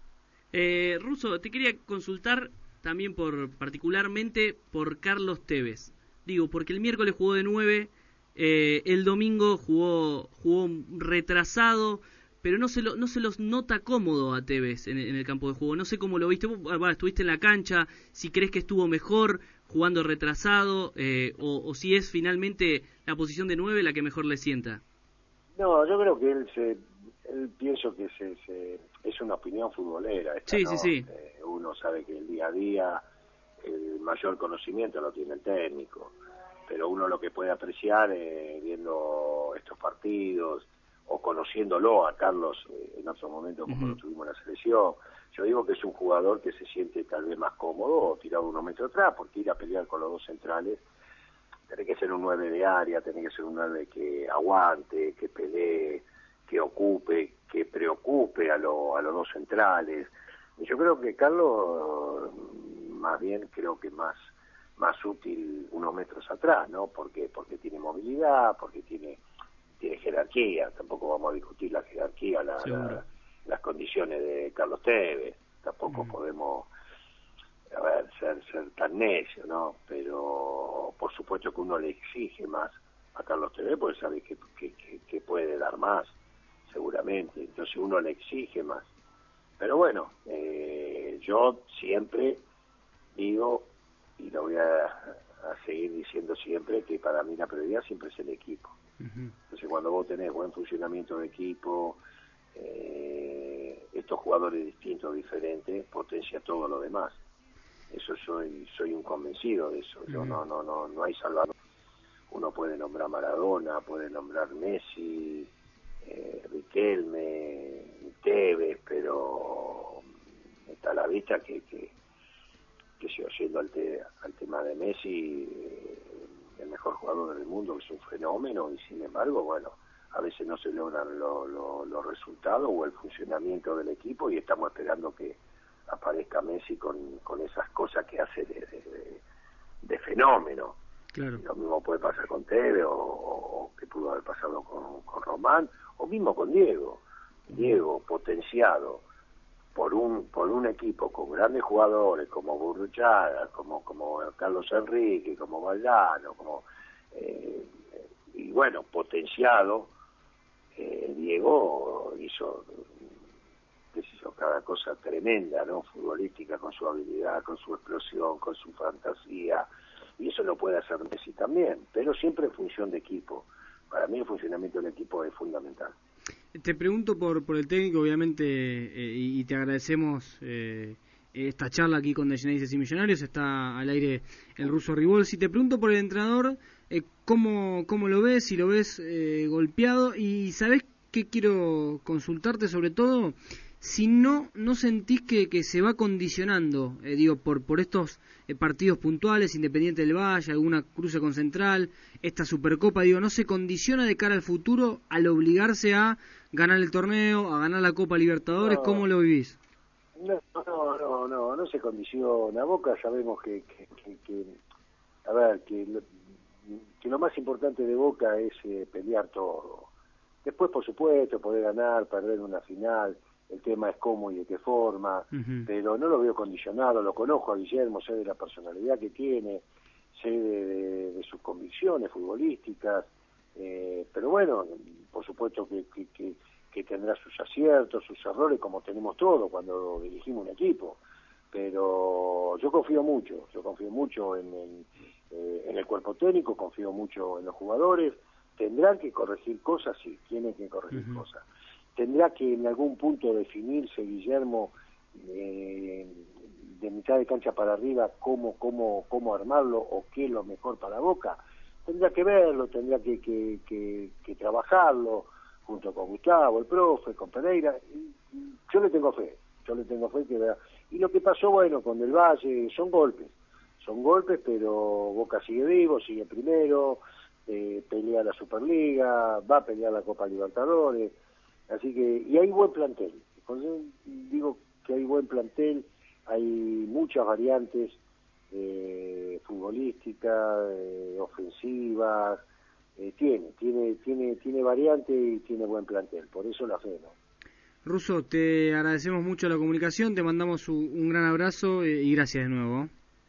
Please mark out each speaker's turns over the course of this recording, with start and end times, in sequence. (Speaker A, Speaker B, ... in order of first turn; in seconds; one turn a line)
Speaker A: 0.5-24.8
Speaker B: 25.6-33.0
Speaker A: 30.5-31.1
Speaker B: 33.6-36.1
Speaker B: 36.7-50.8
Speaker A: 43.7-44.0
Speaker B: 51.7-64.2
Speaker B: 64.8-69.2
Speaker B: 69.8-76.7
Speaker A: 72.6-73.0
Speaker B: 77.7-86.1
Speaker B: 86.7-88.9
Speaker B: 89.6-92.4
Speaker B: 93.2-98.8
Speaker C: 99.0-99.3
Speaker B: 99.5-102.0
Speaker B: 102.5-107.2
Speaker B: 107.9-111.5
Speaker C: 110.1-110.4
Speaker B: 112.3-115.5
Speaker B: 116.0-120.0
Speaker B: 120.7-121.9
Speaker B: 123.0-126.1
Speaker B: 126.6-139.2
Speaker B: 139.8-140.8
Speaker C: 141.1-141.4
Speaker B: 141.4-149.0
Speaker B: 149.7-157.7
Speaker B: 158.3-159.9
Speaker B: 160.8-162.8
Speaker B: 163.9-169.7
Speaker B: 170.2-175.9
Speaker C: 176.6-209.6
Speaker B: 208.6-209.0
Speaker B: 210.2-214.5
Speaker B: 215.2-216.0
Speaker B: 216.7-219.9
Speaker B: 220.4-229.6
Speaker C: 225.3-225.7
Speaker B: 230.2-241.0
Speaker B: 241.5-251.4
Speaker C: 250.9-251.2
Speaker B: 251.9-256.2
Speaker B: 256.8-268.0
Speaker B: 268.7-281.1
Speaker B: 281.7-288.0
Speaker B: 288.5-292.4
Speaker B: 293.0-297.1
Speaker C: 297.8-302.9